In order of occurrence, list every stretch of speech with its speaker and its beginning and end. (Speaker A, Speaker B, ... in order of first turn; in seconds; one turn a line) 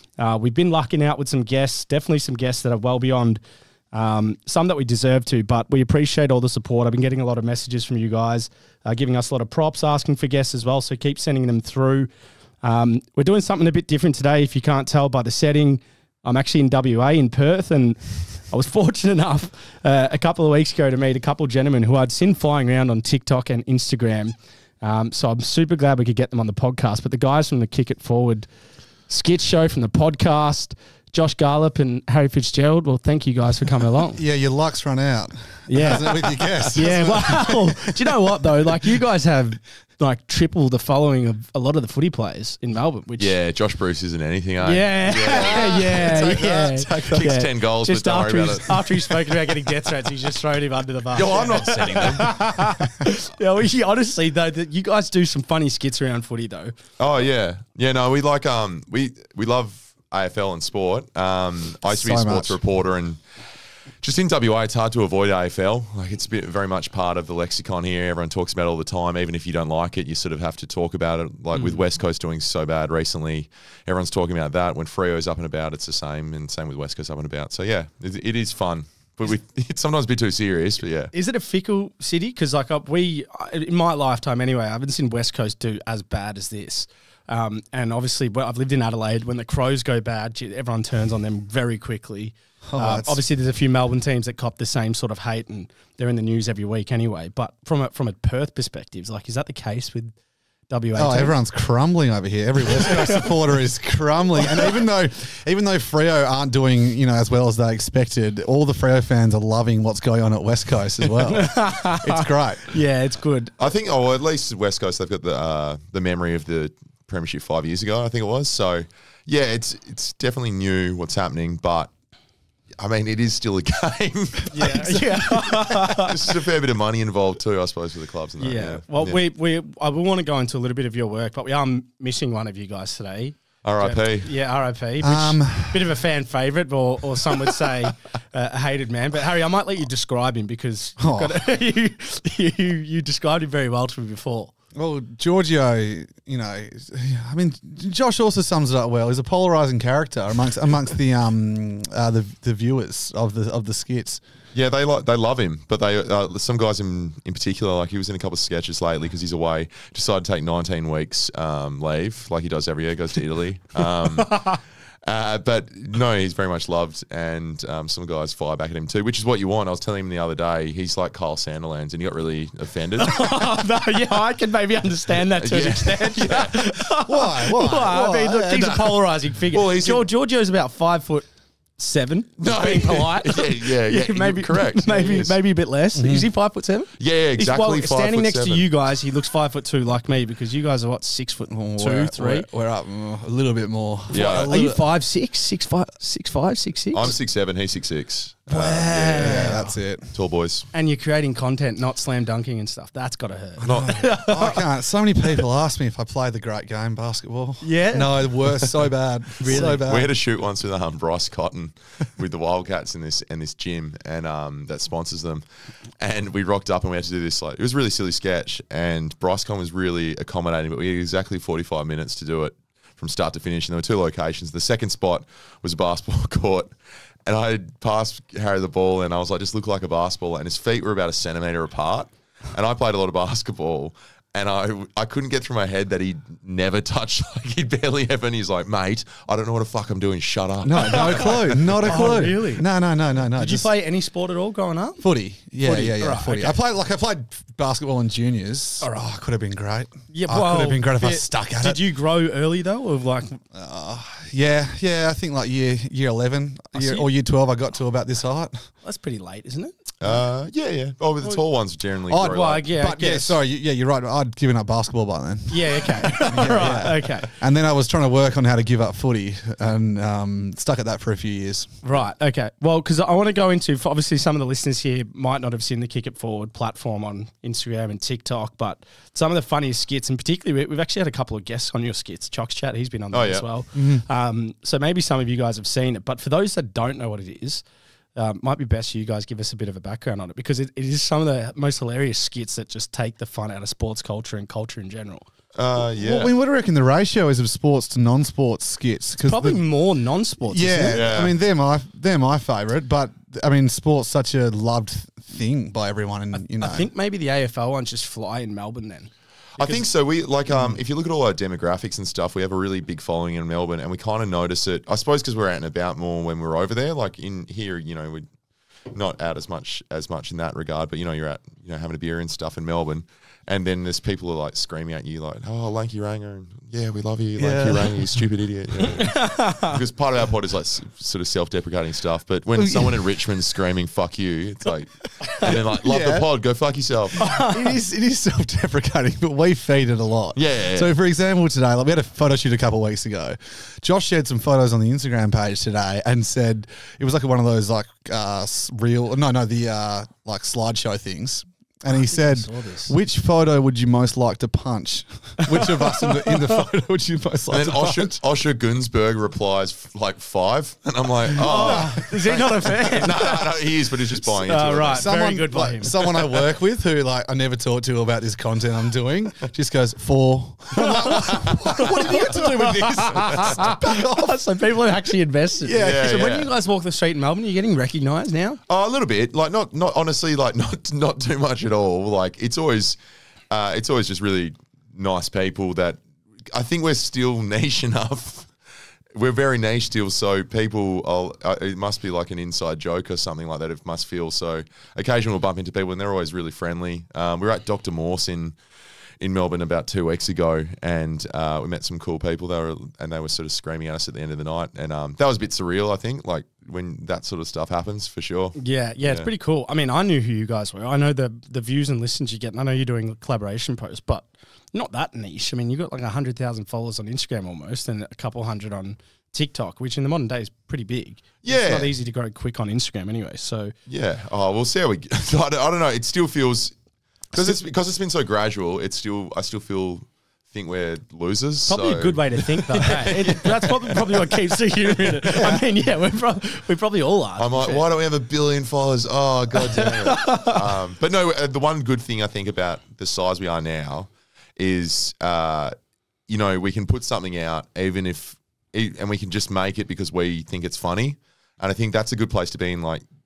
Speaker A: 0.2-3.4
Speaker A: 3.9-12.1
Speaker A: 12.6-28.5
Speaker A: 29.1-34.2
Speaker B: 34.1-38.5
Speaker A: 35.7-43.3
Speaker C: 43.2-49.7
Speaker A: 44.6-56.7
Speaker B: 45.2-46.5
Speaker C: 51.1-52.7
Speaker C: 57.0-63.2
Speaker B: 61.9-62.6
Speaker C: 64.0-81.1
Speaker A: 71.5-71.8
Speaker A: 81.1-100.1
Speaker B: 92.7-93.2
Speaker A: 100.7-101.4
Speaker B: 100.9-112.8
Speaker A: 102.8-103.2
Speaker A: 104.4-104.7
Speaker A: 111.2-113.5
Speaker C: 113.6-121.9
Speaker C: 122.8-129.2
Speaker A: 124.5-126.3
Speaker B: 124.7-125.7
Speaker A: 128.4-144.5
Speaker C: 133.6-134.3
Speaker B: 135.0-135.9
Speaker B: 141.0-141.4
Speaker B: 144.7-154.2
Speaker C: 154.5-173.6
Speaker A: 164.2-164.6
Speaker A: 173.0-192.5
Speaker C: 175.4-176.6
Speaker B: 176.9-179.0
Speaker C: 179.5-180.1
Speaker C: 182.4-185.3
Speaker B: 185.9-186.3
Speaker C: 187.0-188.7
Speaker B: 191.5-194.8
Speaker A: 194.1-197.1
Speaker C: 194.1-194.5
Speaker C: 196.9-199.6
Speaker A: 198.5-199.8
Speaker B: 198.5-200.1
Speaker C: 200.1-200.7
Speaker A: 200.7-204.6
Speaker C: 203.6-204.1
Speaker B: 203.6-210.1
Speaker A: 207.6-208.4
Speaker A: 209.4-209.8
Speaker C: 209.4-215.4
Speaker C: 216.0-226.7
Speaker C: 227.2-242.2
Speaker B: 240.6-243.7
Speaker A: 240.8-242.6
Speaker A: 243.3-245.0
Speaker B: 245.0-251.8
Speaker A: 245.6-246.6
Speaker A: 250.1-253.4
Speaker B: 253.5-258.7
Speaker A: 256.7-257.1
Speaker A: 258.8-260.1
Speaker C: 260.0-262.7
Speaker B: 262.1-271.8
Speaker A: 262.2-263.4
Speaker A: 265.5-267.3
Speaker A: 271.8-287.6
Speaker C: 283.1-283.4
Speaker B: 283.7-284.1
Speaker A: 288.1-295.3
Speaker C: 295.5-296.3
Speaker B: 295.9-299.6
Speaker A: 299.2-301.1
Speaker B: 300.5-306.9
Speaker C: 300.9-301.4
Speaker A: 306.3-309.9
Speaker C: 309.6-318.2
Speaker B: 310.5-310.8
Speaker C: 318.9-337.2
Speaker B: 327.4-328.1
Speaker A: 328.9-329.8
Speaker B: 332.6-333.1
Speaker A: 335.2-335.5
Speaker B: 335.3-336.2
Speaker B: 337.1-358.2
Speaker A: 337.2-337.7
Speaker C: 340.3-340.9
Speaker A: 351.9-352.9
Speaker A: 355.4-356.4
Speaker C: 357.5-365.1
Speaker B: 361.3-362.1
Speaker A: 361.4-363.6
Speaker A: 364.4-365.9
Speaker B: 365.0-374.4
Speaker A: 370.7-378.6
Speaker C: 371.2-371.9
Speaker C: 375.7-376.5
Speaker C: 378.7-383.0
Speaker C: 383.5-386.0
Speaker C: 386.5-388.5
Speaker C: 389.1-398.6
Speaker C: 399.2-409.3
Speaker A: 408.6-423.7
Speaker C: 421.4-421.9
Speaker C: 423.9-426.7
Speaker C: 427.3-434.3
Speaker A: 431.7-437.8
Speaker C: 434.9-435.5
Speaker C: 437.4-445.7
Speaker A: 439.6-440.6
Speaker C: 446.3-453.0